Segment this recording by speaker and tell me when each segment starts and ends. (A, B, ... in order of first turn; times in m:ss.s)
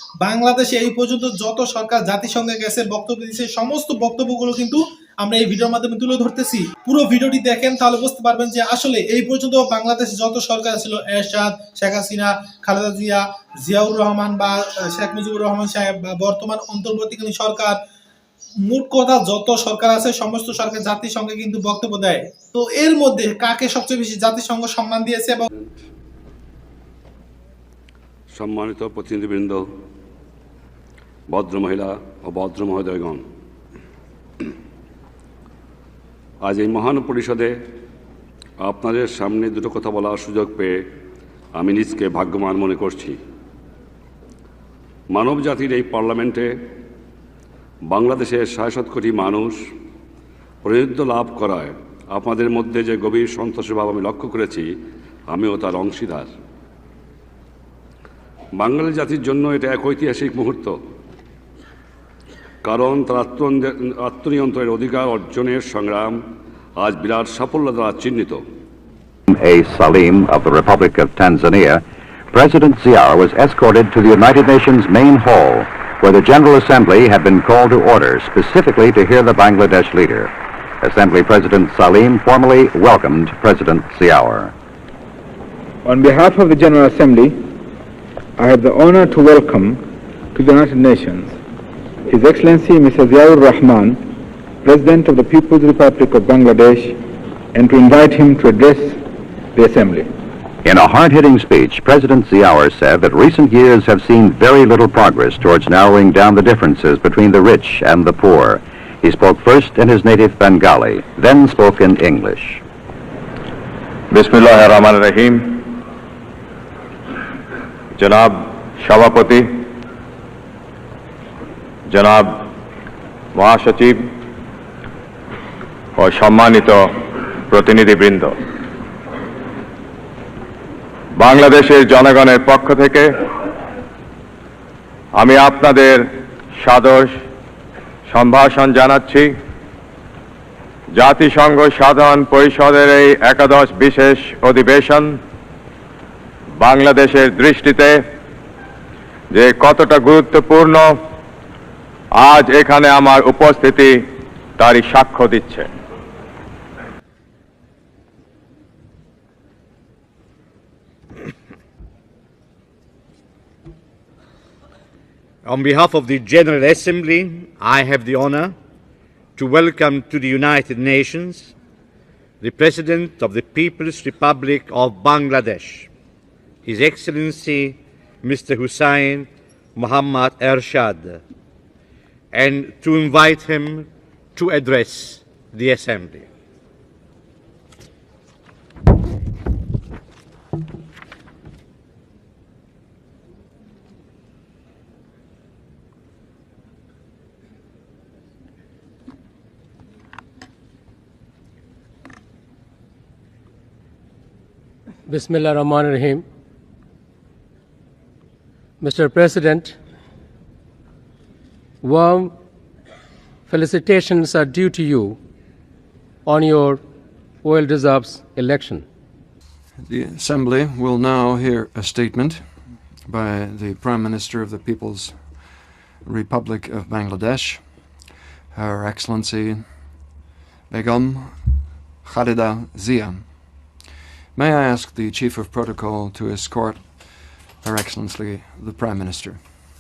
0:00.2-0:17.8 A
0:18.6-0:25.4 A
0:28.3-0:29.6 B
0:31.3-0:33.2 B
0:36.4-0:37.5 B
0:38.6-0:40.8 B
0:41.6-0:43.2 B
0:45.1-0:46.5 B
0:47.9-0:49.6 B
0:50.6-0:54.7 B
0:55.3-0:56.3 B
0:58.6-1:00.8 B
1:02.6-1:06.2 B
1:06.8-1:08.4 B
1:09.3-1:24.5 C
1:25.8-1:27.4 D
1:28.4-1:29.8 D
1:30.3-1:31.4 D
1:32.1-1:34.0 D
1:34.6-1:37.0 D
1:37.5-1:39.0 D
1:39.6-1:40.1 D
1:40.6-1:52.6 C
1:54.1-1:55.6 E
1:58.0-1:59.5 E
2:01.9-2:02.4 E
2:03.4-2:04.0 E
2:06.0-2:06.9 E
2:07.5-2:08.3 E
2:11.2-2:13.1 E
2:15.2-2:17.1 E
2:18.1-2:19.3 E
2:21.0-2:25.2 E
2:26.6-2:28.0 E
2:29.3-2:30.9 E
2:32.2-2:34.0 E
2:34.6-2:35.7 E
2:45.4-2:48.6 F
2:49.4-2:51.5 F
2:52.4-2:55.9 F
2:56.6-3:01.2 F
3:02.3-3:06.3 F
3:25.1-3:26.2 G
3:28.8-3:29.8 G
3:31.8-3:32.3 G
3:33.5-3:35.2 G
3:36.3-3:36.8 G
3:37.4-3:38.8 G
3:39.8-3:48.0 H
3:48.5-3:50.1 H
3:50.7-3:53.8 H
3:54.3-3:59.5 H